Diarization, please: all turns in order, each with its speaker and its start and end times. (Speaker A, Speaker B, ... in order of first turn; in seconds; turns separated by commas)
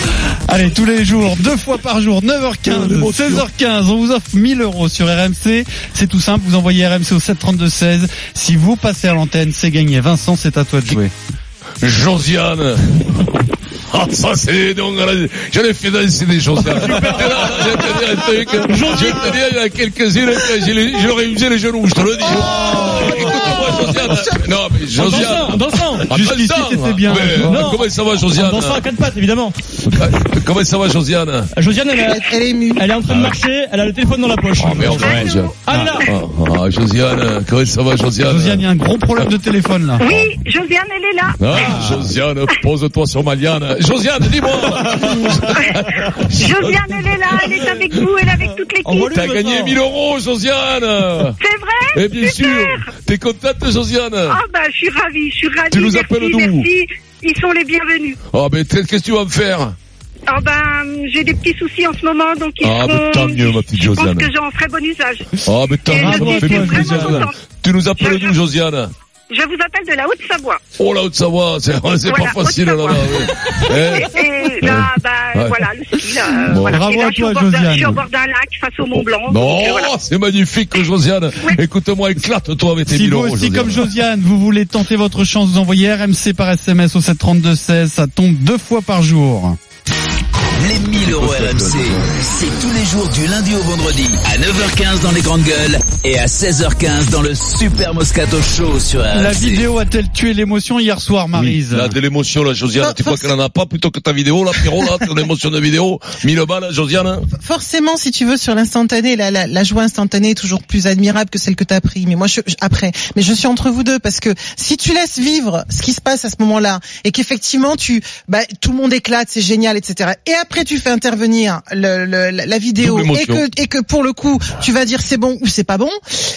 Speaker A: 0.5-11.1, Speaker B: 2.6-3.5, Speaker B: 11.8-12.8, Speaker B: 13.9-28.9, Speaker C: 16.5-18.0, Speaker C: 18.6-19.4, Speaker D: 22.2-25.5, Speaker C: 22.4-23.9, Speaker C: 24.9-26.1, Speaker A: 26.1-27.6, Speaker C: 27.3-29.6, Speaker B: 29.9-31.5, Speaker C: 31.5-36.0, Speaker D: 31.9-32.9, Speaker B: 34.6-38.6, Speaker E: 34.9-36.1, Speaker A: 35.7-35.9, Speaker A: 38.2-40.0, Speaker E: 40.0-42.0, Speaker B: 40.0-40.3, Speaker B: 41.4-51.4, Speaker E: 44.5-49.1, Speaker C: 48.8-49.8, Speaker E: 51.2-52.9, Speaker B: 51.9-54.4, Speaker E: 54.2-58.2, Speaker B: 55.7-56.7, Speaker B: 58.3-59.8, Speaker E: 60.3-68.4, Speaker B: 62.6-64.3, Speaker B: 65.5-68.9, Speaker A: 65.9-67.2, Speaker E: 69.3-70.6, Speaker B: 70.8-76.8, Speaker E: 72.0-80.0, Speaker A: 76.5-78.0, Speaker B: 79.3-83.9, Speaker E: 80.7-81.6, Speaker A: 82.9-89.6, Speaker F: 90.6-99.7, Speaker B: 91.0-92.1, Speaker A: 99.1-101.9, Speaker B: 101.7-107.2, Speaker D: 102.8-103.3, Speaker D: 107.4-126.0, Speaker B: 122.8-123.5